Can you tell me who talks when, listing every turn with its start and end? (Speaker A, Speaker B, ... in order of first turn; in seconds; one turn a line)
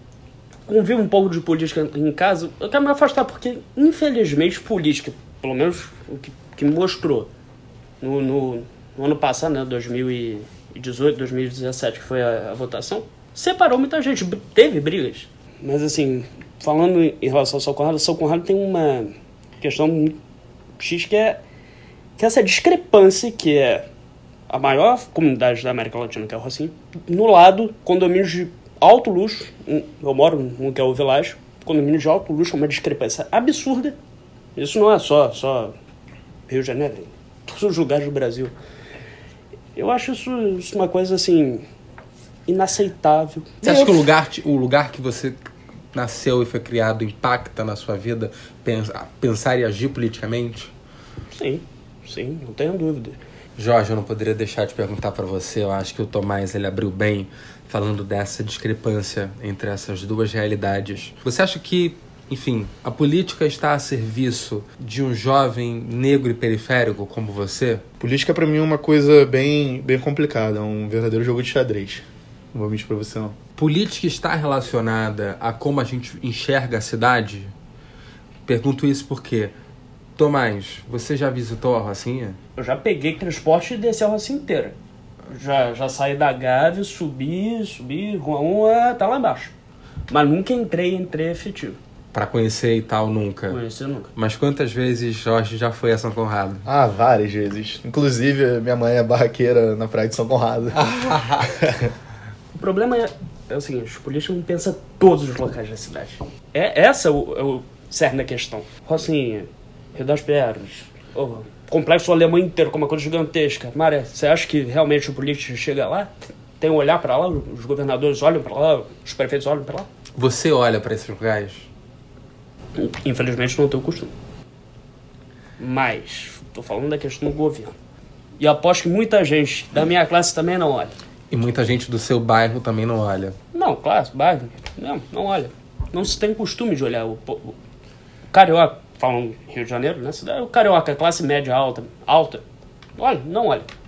Speaker A: 0.7-7.3
Speaker A: 8.0-20.2
Speaker A: 20.8-21.4
Speaker A: 22.2-23.8
Speaker A: 24.5-34.0
Speaker A: 34.5-35.7
Speaker A: 36.5-38.5
Speaker A: 39.8-41.6
Speaker A: 42.5-44.1
Speaker B: 43.6-45.4
Speaker B: 45.9-50.7
Speaker A: 51.3-53.2
Speaker B: 53.5-67.8
Speaker C: 68.0-73.4
Speaker B: 73.6-77.5
Speaker B: 78.5-79.5
Speaker B: 80.2-82.4
Speaker A: 82.6-84.8
Speaker A: 85.3-89.5
Speaker A: 90.1-91.8
Speaker B: 92.1-93.6
Speaker A: 93.5-94.1
Speaker B: 94.1-96.7
Speaker C: 96.6-100.8
Speaker B: 100.7-101.5
Speaker C: 101.4-101.9
Speaker A: 102.5-119.9
Speaker B: 120.2-121.7
Speaker A: 122.8-124.1
Speaker A: 125.6-127.7
Speaker A: 128.4-130.9
Speaker B: 131.3-133.4
Speaker A: 133.5-137.5
Speaker A: 138.3-142.4
Speaker A: 143.0-143.7